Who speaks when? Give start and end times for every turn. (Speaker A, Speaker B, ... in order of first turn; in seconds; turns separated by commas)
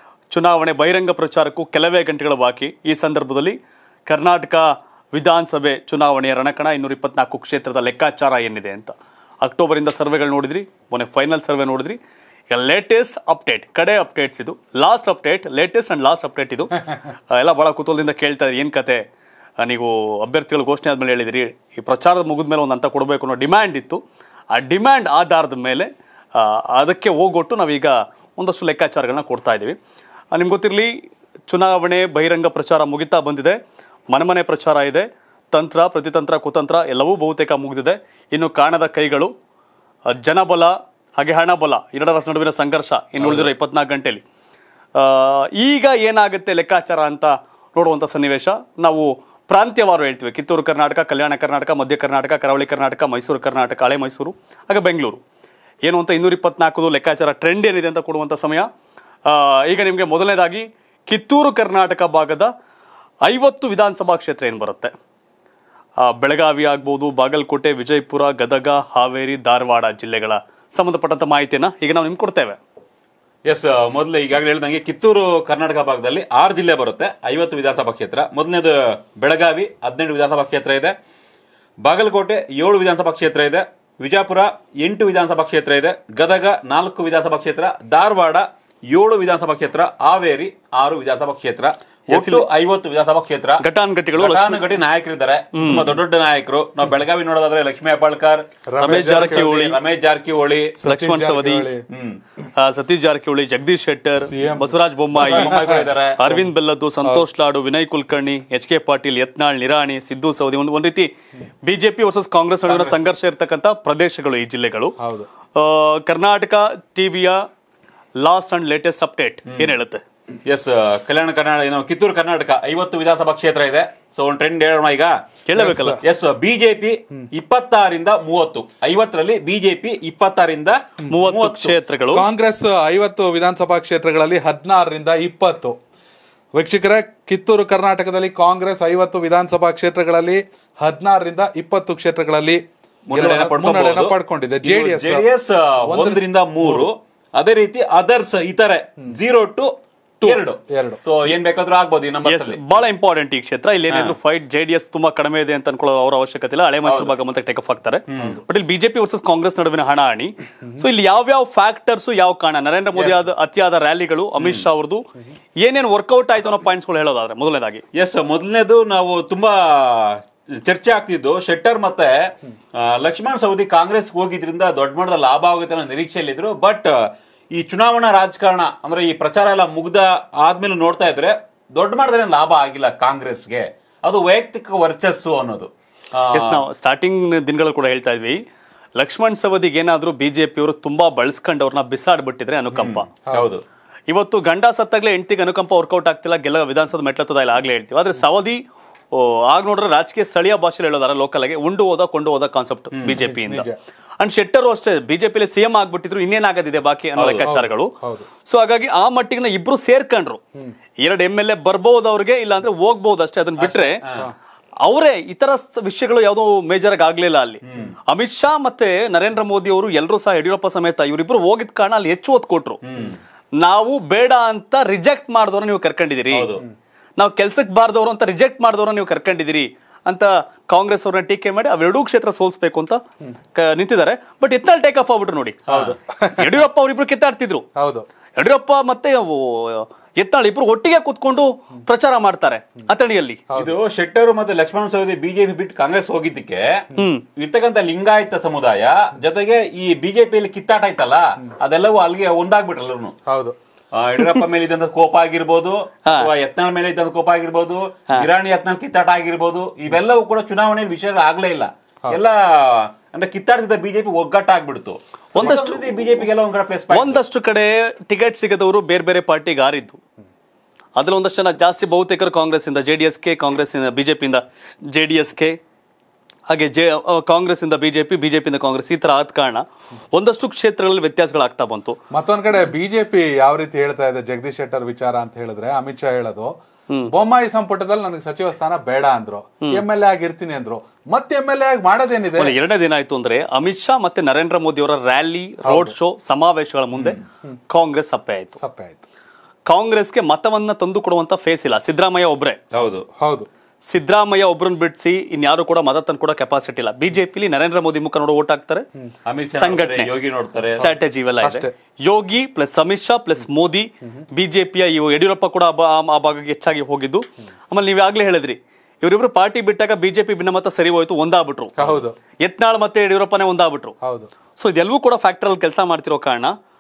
Speaker A: 0.3-12.0, Speaker A: 12.5-19.0, Speaker A: 19.6-24.0, Speaker A: 24.5-29.8, Speaker A: 30.3-30.9, Speaker A: 31.5-33.6, Speaker A: 34.1-39.3, Speaker A: 40.1-44.2, Speaker A: 45.0-55.2, Speaker A: 55.9-58.7, Speaker A: 59.3-62.5, Speaker A: 63.2-64.9, Speaker A: 66.0-72.6, Speaker B: 73.5-80.9, Speaker B: 81.8-93.6, Speaker A: 92.1-92.5, Speaker A: 93.6-94.7, Speaker B: 94.2-100.8, Speaker A: 95.5-95.9, Speaker C: 98.7-99.5, Speaker A: 98.8-99.8, Speaker C: 100.8-101.8, Speaker A: 100.8-101.7, Speaker B: 101.9-102.2, Speaker A: 102.5-111.1, Speaker C: 104.2-106.5, Speaker B: 105.2-106.2, Speaker A: 111.6-115.0, Speaker B: 112.7-113.0, Speaker C: 115.0-115.3, Speaker A: 115.5-117.4, Speaker A: 118.2-120.0, Speaker B: 120.5-125.2, Speaker A: 125.5-126.0, Speaker C: 125.5-126.0, Speaker B: 126.0-131.8, Speaker A: 131.1-132.3, Speaker C: 132.1-135.8, Speaker C: 136.6-145.3, Speaker B: 143.1-152.8, Speaker C: 145.9-146.9, Speaker C: 150.2-151.0, Speaker A: 152.2-165.1, Speaker B: 153.9-154.2, Speaker B: 156.8-157.2, Speaker B: 158.1-158.4, Speaker B: 163.0-163.3, Speaker B: 164.4-164.7, Speaker A: 165.6-167.8, Speaker B: 167.9-186.6, Speaker A: 186.3-188.4, Speaker A: 189.0-193.1, Speaker B: 192.7-193.6, Speaker A: 194.1-198.6, Speaker A: 199.1-203.7, Speaker B: 202.9-203.2, Speaker C: 203.2-203.8, Speaker A: 204.2-207.9, Speaker B: 207.2-207.5, Speaker C: 207.4-208.3, Speaker A: 208.4-210.4, Speaker A: 211.0-214.0, Speaker B: 213.6-214.3, Speaker A: 214.8-222.8, Speaker B: 217.7-217.9, Speaker B: 222.8-223.2, Speaker A: 223.6-226.5, Speaker B: 226.3-226.7, Speaker A: 227.2-233.0, Speaker A: 233.5-237.6, Speaker C: 235.7-236.6, Speaker C: 237.8-238.1, Speaker A: 238.4-243.4, Speaker C: 243.5-243.8, Speaker B: 243.6-246.8, Speaker A: 247.0-247.2, Speaker B: 247.4-253.1, Speaker C: 253.3-253.6, Speaker B: 253.9-267.2, Speaker A: 265.4-266.2, Speaker A: 266.9-270.0, Speaker A: 271.0-275.6, Speaker A: 276.5-282.0, Speaker C: 282.1-286.5, Speaker C: 287.1-292.6, Speaker A: 292.4-297.2, Speaker C: 295.6-296.0, Speaker B: 296.9-297.2, Speaker A: 297.7-298.6, Speaker C: 298.6-299.0, Speaker A: 299.7-302.6, Speaker B: 302.7-303.1, Speaker C: 303.2-303.5, Speaker A: 303.9-308.8, Speaker B: 309.3-310.9, Speaker A: 309.6-310.1, Speaker A: 310.8-323.9, Speaker C: 311.4-311.7, Speaker C: 321.8-322.1, Speaker C: 324.0-324.3, Speaker A: 324.6-326.5